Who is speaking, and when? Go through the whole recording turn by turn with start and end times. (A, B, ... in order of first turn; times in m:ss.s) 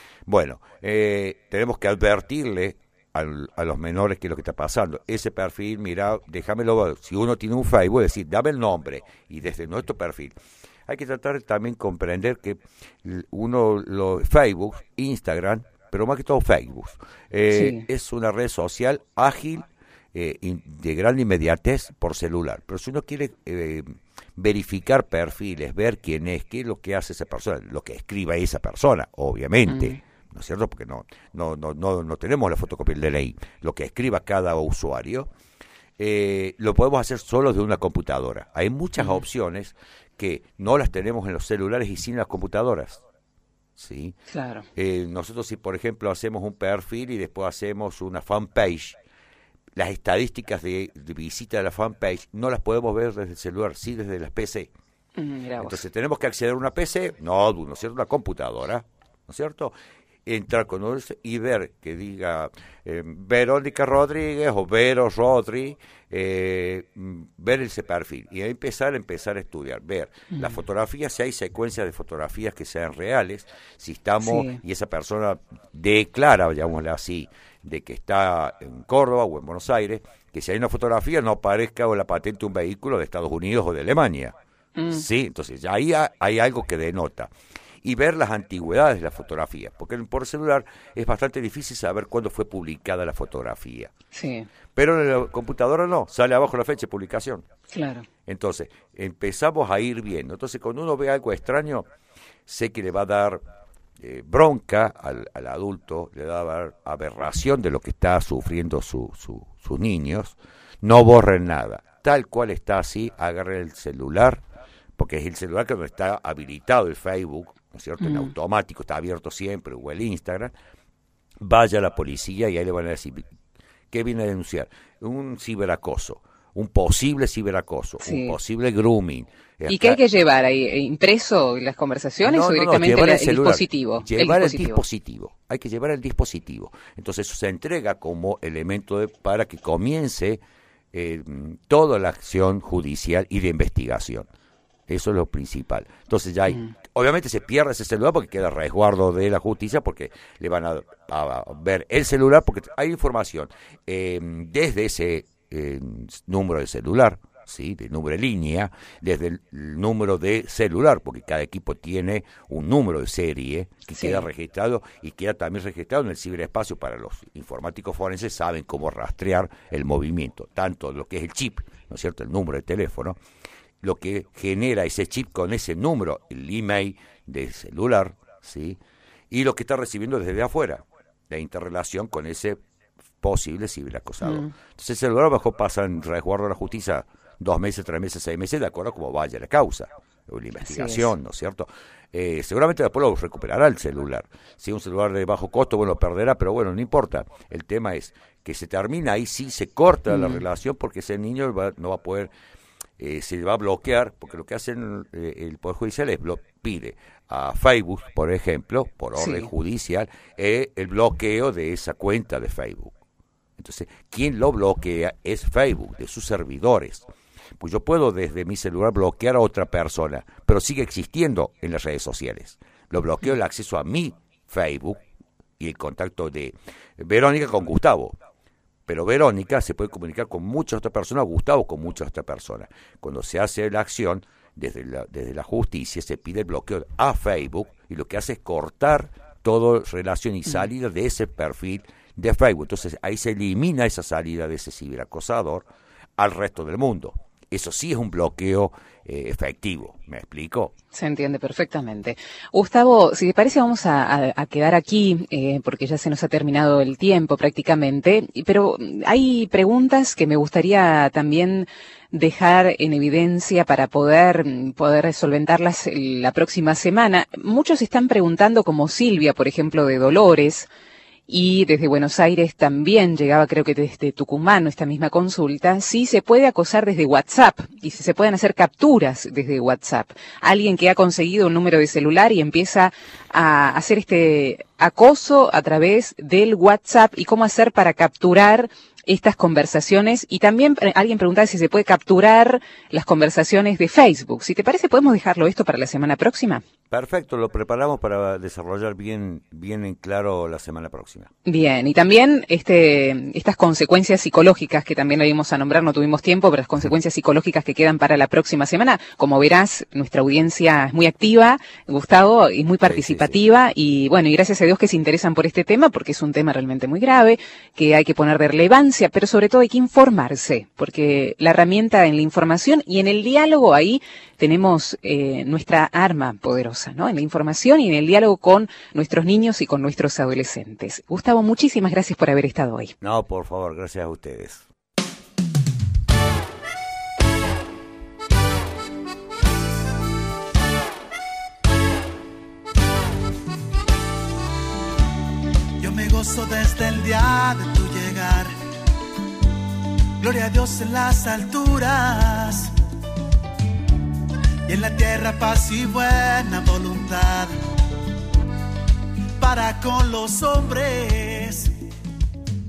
0:00.3-0:10.4 A
0:10.9-0:35.3 A
0:17.5-0:17.8 B
0:29.7-0:30.0 B
0:36.0-0:43.0 A
0:39.0-0:39.2 B
0:43.8-0:44.2 A
0:44.3-0:44.7 B
0:44.8-0:49.0 A
0:49.8-0:54.7 A
0:55.2-0:55.8 B
0:55.6-0:59.7 A
1:00.3-1:24.4 A
1:10.3-1:10.6 B
1:14.2-1:14.6 B
1:24.8-1:25.0 B
1:24.9-1:27.3 A
1:27.8-1:33.9 A
1:34.1-1:34.5 B
1:34.8-1:37.5 A
1:37.7-1:38.1 B
1:38.3-1:41.9 A
1:42.5-1:43.4 A
1:44.0-1:54.4 A
1:55.0-2:00.5 A
1:58.0-1:58.3 B
2:01.4-2:03.3 A
2:03.9-2:10.0 A
2:08.0-2:08.4 B
2:09.7-2:14.8 B
2:12.2-2:20.4 A
2:20.9-2:24.3 A
2:24.9-2:53.2 A
2:43.9-2:44.3 B
2:53.8-2:58.8 A
2:59.3-3:02.6 A
3:03.2-3:22.3 A
3:04.2-3:04.5 B
3:10.6-3:11.1 B
3:20.1-3:20.4 B
3:23.0-3:33.0 A
3:29.2-3:29.5 B
3:33.6-3:37.1 A
3:37.6-3:45.0 A
3:45.6-3:48.2 A
3:48.9-4:05.7 A
4:06.2-4:10.7 A
4:10.9-4:30.7 B
4:31.3-4:56.6 B
4:56.9-5:01.3 A
5:01.5-5:32.9 B
5:12.8-5:13.4 A
5:33.0-5:34.6 A
5:45.8-5:48.5 C
5:50.2-5:52.7 C
5:54.7-5:57.5 C
5:59.4-6:01.7 C